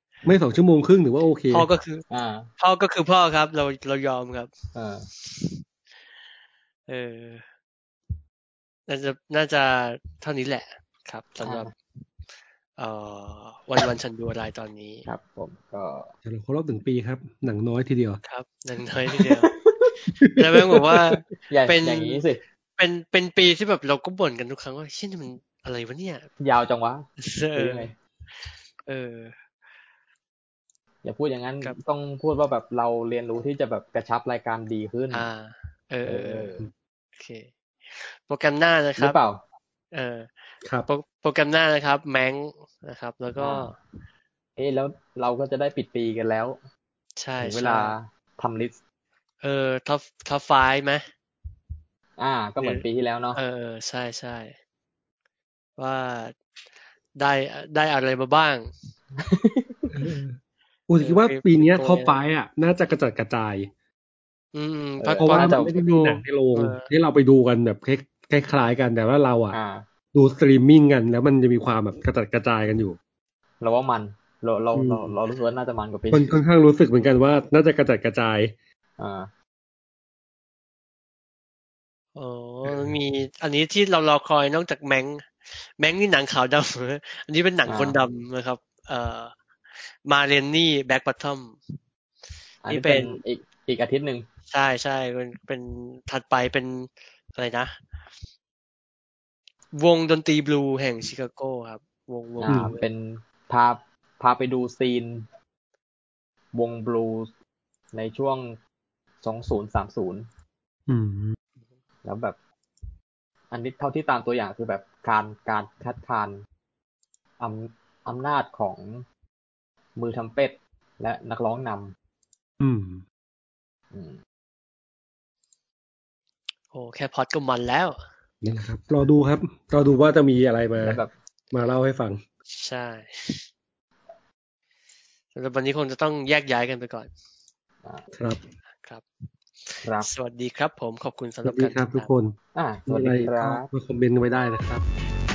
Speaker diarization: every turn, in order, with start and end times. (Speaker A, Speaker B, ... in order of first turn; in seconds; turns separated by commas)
Speaker A: 0.2-1.7, Speaker B: 1.5-2.0, Speaker C: 2.1-2.5, Speaker B: 2.6-4.5, Speaker C: 4.7-5.1, Speaker B: 6.9-7.4, Speaker B: 8.9-11.7, Speaker C: 11.4-11.7, Speaker B: 12.8-15.1, Speaker C: 15.1-16.1, Speaker A: 16.2-18.2, Speaker B: 18.2-19.5, Speaker C: 19.1-20.0, Speaker A: 20.2-21.2, Speaker B: 20.4-22.2, Speaker C: 21.5-22.4, Speaker B: 22.8-26.3, Speaker C: 26.4-27.9, Speaker B: 27.2-27.9, Speaker B: 28.8-29.4, Speaker C: 31.0-35.3, Speaker B: 35.1-36.5, Speaker C: 36.0-36.6, Speaker B: 37.2-39.2, Speaker C: 39.0-39.4, Speaker B: 39.9-40.3, Speaker B: 40.9-43.8, Speaker C: 43.4-43.7, Speaker C: 44.6-46.6, Speaker B: 47.2-48.0, Speaker C: 47.4-48.8, Speaker B: 49.4-51.0, Speaker C: 52.2-53.4, Speaker B: 52.6-54.5, Speaker B: 55.8-56.4, Speaker B: 57.1-58.7, Speaker C: 59.2-60.2, Speaker A: 59.9-60.4, Speaker A: 60.9-63.7, Speaker B: 61.0-62.2, Speaker B: 64.5-66.9, Speaker C: 65.0-65.7, Speaker A: 65.2-69.6, Speaker C: 69.5-69.8, Speaker A: 70.1-73.0, Speaker C: 73.6-76.4, Speaker A: 74.7-75.1, Speaker A: 76.1-78.5, Speaker C: 79.0-79.3, Speaker B: 82.2-89.3, Speaker A: 82.6-83.0, Speaker C: 87.7-88.0, Speaker B: 90.0-91.6, Speaker C: 92.6-94.3, Speaker B: 92.7-93.2, Speaker B: 94.5-97.7, Speaker B: 99.7-102.8, Speaker C: 102.4-105.3, Speaker A: 102.5-102.8, Speaker C: 106.5-107.3, Speaker C: 107.9-108.6, Speaker C: 109.2-110.3, Speaker A: 110.9-111.4, Speaker C: 112.0-112.4, Speaker C: 113.5-116.4, Speaker C: 117.4-119.0, Speaker C: 120.0-121.9, Speaker A: 122.6-123.0, Speaker C: 123.9-124.2, Speaker B: 126.7-128.0, Speaker A: 128.4-131.0, Speaker C: 130.8-131.1, Speaker A: 131.5-132.2, Speaker B: 132.5-133.4, Speaker B: 135.3-137.1, Speaker A: 138.1-138.4, Speaker B: 139.7-142.1, Speaker C: 139.8-140.1, Speaker A: 141.4-144.8, Speaker C: 142.5-143.7